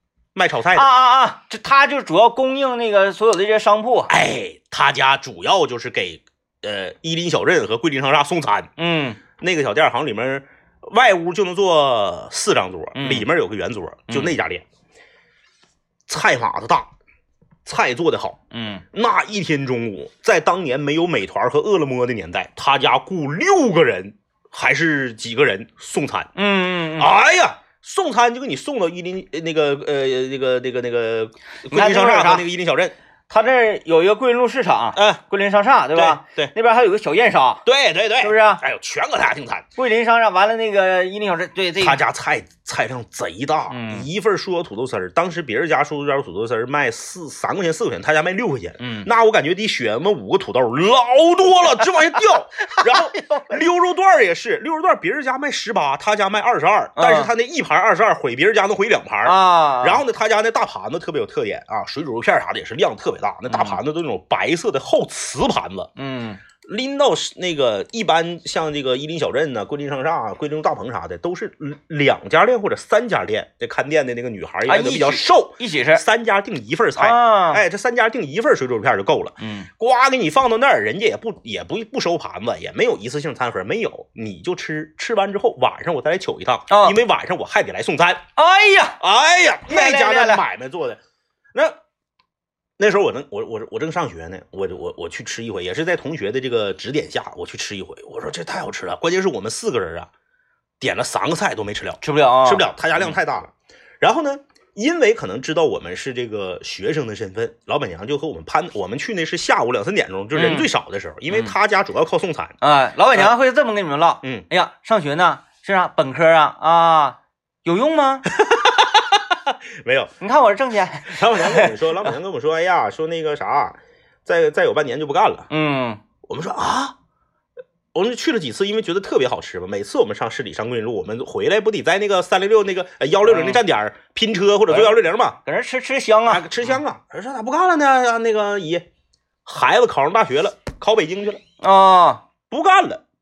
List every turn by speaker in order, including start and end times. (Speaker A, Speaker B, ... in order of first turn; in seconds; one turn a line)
Speaker A: 0.3-0.9
Speaker B: 0.8-4.1
Speaker A: 4.1-8.7
Speaker B: 8.8-9.2
Speaker A: 9.4-14.7
Speaker B: 13.0-13.3
Speaker B: 14.1-14.4
Speaker A: 16.1-16.9
Speaker A: 17.6-18.4
Speaker B: 18.5-18.9
Speaker A: 18.9-26.3
Speaker B: 26.4-27.1
Speaker A: 27.0-33.0
Speaker B: 31.7-32.5
Speaker B: 33.3-37.7
Speaker A: 35.0-35.2
Speaker A: 36.0-36.5
Speaker A: 37.6-39.7
Speaker B: 38.2-38.6
Speaker B: 39.8-42.0
Speaker A: 41.8-65.9
Speaker B: 43.7-44.1
Speaker B: 48.8-49.1
Speaker B: 52.6-53.6
Speaker B: 57.0-57.3
Speaker B: 59.2-60.0
Speaker B: 63.5-63.8
Speaker B: 66.0-66.4
Speaker A: 66.6-88.2
Speaker B: 74.7-76.0
Speaker B: 77.0-77.6
Speaker B: 79.4-79.7
Speaker B: 86.7-87.0
Speaker B: 88.4-89.0
Speaker A: 89.0-91.0
Speaker B: 89.7-90.4
Speaker A: 92.8-100.1
Speaker A: 100.8-112.5
Speaker B: 102.0-103.2
Speaker B: 110.3-110.7
Speaker B: 112.6-118.3
Speaker A: 118.3-120.1
Speaker B: 120.2-122.1
Speaker A: 121.1-125.5
Speaker B: 125.5-126.0
Speaker A: 126.2-127.0
Speaker A: 127.9-135.4
Speaker B: 133.2-133.6
Speaker B: 134.7-136.5
Speaker A: 136.3-138.9
Speaker A: 139.4-141.4
Speaker B: 141.6-142.2
Speaker A: 142.5-143.0